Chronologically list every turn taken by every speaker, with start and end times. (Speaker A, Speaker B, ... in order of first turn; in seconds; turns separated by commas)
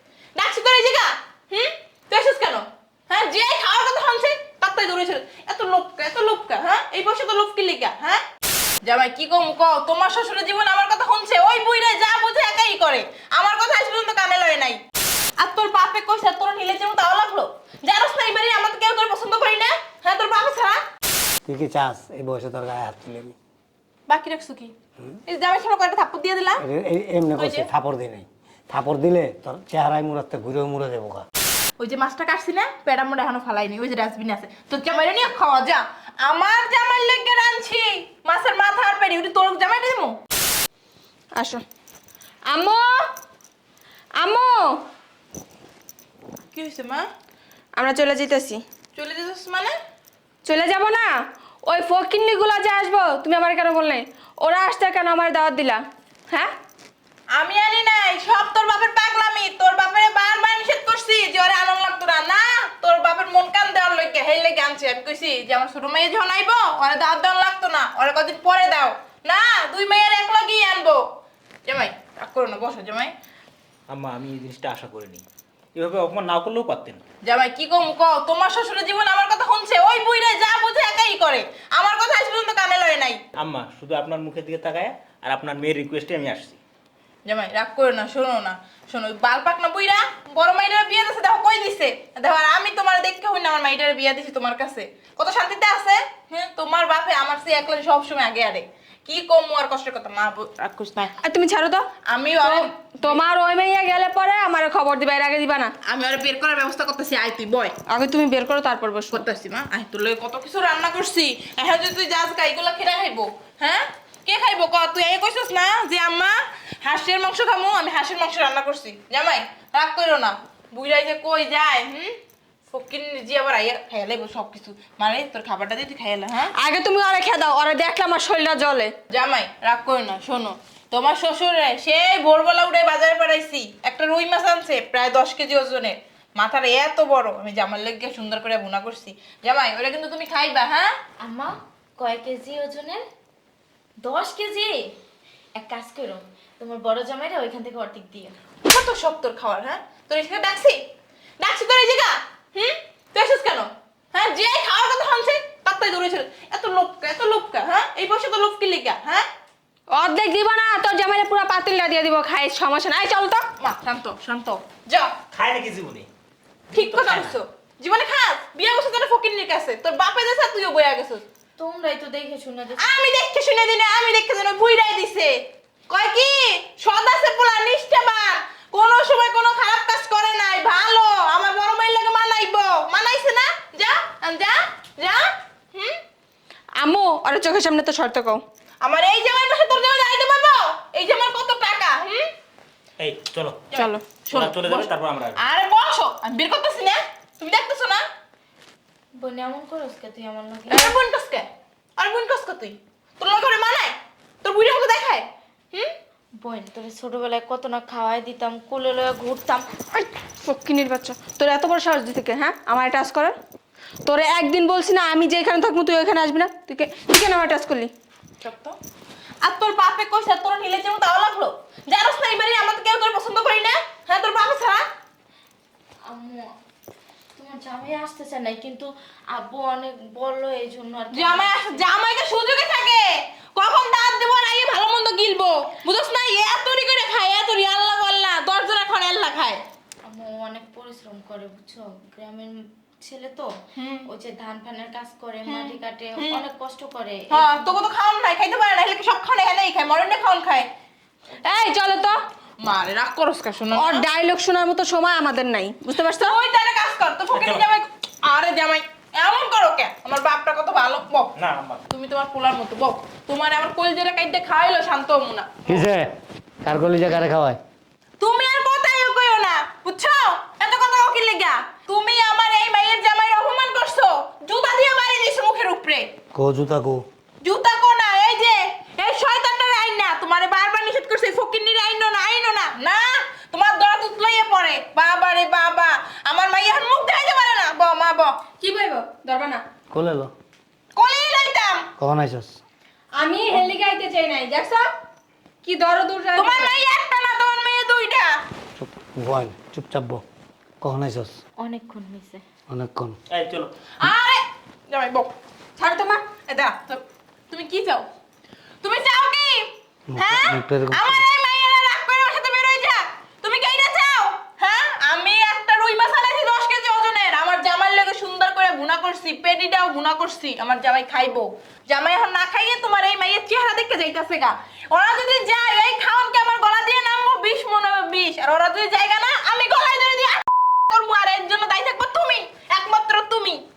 Speaker A: 0.3-8.2, Speaker A: 8.8-14.8, Speaker A: 15.4-20.8, Speaker B: 21.4-23.3, Speaker A: 24.1-24.7, Speaker A: 25.3-26.6, Speaker B: 26.6-31.2, Speaker A: 27.4-27.7, Speaker A: 31.8-40.2, Speaker C: 41.3-41.6, Speaker C: 42.5-43.1, Speaker C: 44.2-44.8, Speaker A: 46.5-47.1, Speaker C: 47.8-48.6, Speaker A: 48.9-49.7, Speaker C: 50.4-51.1, Speaker C: 51.6-56.5, Speaker A: 57.3-71.0, Speaker A: 71.7-73.1, Speaker D: 73.9-75.2, Speaker D: 75.7-77.0, Speaker A: 77.2-83.2, Speaker D: 83.3-86.6, Speaker A: 87.2-101.1, Speaker C: 101.2-101.9, Speaker A: 102.0-103.2, Speaker C: 102.4-105.7, Speaker A: 105.8-107.8, Speaker C: 107.8-109.2, Speaker A: 109.1-122.2, Speaker A: 122.7-126.5, Speaker C: 126.6-128.9, Speaker A: 129.1-140.9, Speaker E: 141.2-143.0, Speaker E: 144.0-144.8, Speaker E: 145.6-148.4, Speaker A: 148.7-150.8, Speaker A: 151.4-159.3, Speaker C: 159.9-163.5, Speaker A: 163.6-165.2, Speaker D: 165.3-166.1, Speaker D: 166.7-167.3, Speaker A: 166.7-171.2, Speaker E: 171.6-172.9, Speaker A: 172.8-186.0, Speaker C: 186.8-188.4, Speaker A: 188.8-192.3, Speaker D: 193.0-193.7, Speaker A: 193.7-198.0, Speaker C: 193.7-194.0, Speaker D: 194.3-195.4, Speaker E: 199.2-201.0, Speaker A: 200.7-205.9, Speaker E: 206.4-209.7, Speaker C: 209.9-213.3, Speaker C: 214.1-217.9, Speaker A: 218.4-218.8, Speaker A: 219.4-224.8, Speaker E: 226.1-226.5, Speaker E: 227.3-231.8, Speaker A: 231.1-239.6, Speaker E: 240.1-243.6, Speaker A: 243.8-244.1, Speaker E: 244.1-247.7, Speaker A: 245.4-246.4, Speaker A: 247.3-250.7, Speaker C: 251.4-252.2, Speaker A: 252.6-254.0, Speaker C: 253.7-256.4, Speaker A: 256.2-261.3, Speaker D: 257.3-257.6, Speaker D: 261.4-261.8, Speaker A: 261.9-265.9, Speaker B: 265.6-266.1, Speaker B: 266.6-267.6, Speaker A: 268.2-276.1, Speaker B: 276.3-277.0, Speaker A: 277.4-288.4, Speaker C: 288.6-289.6, Speaker B: 289.9-290.3, Speaker A: 290.9-291.9, Speaker B: 292.0-292.6, Speaker C: 293.1-294.9, Speaker C: 295.6-296.8, Speaker A: 296.4-298.4, Speaker B: 298.8-300.2, Speaker B: 300.8-301.4, Speaker E: 301.6-302.4, Speaker B: 302.7-303.2, Speaker D: 303.3-303.7, Speaker A: 304.0-305.3, Speaker C: 305.8-306.2, Speaker A: 306.4-308.1, Speaker A: 308.8-333.6, Speaker B: 310.1-311.2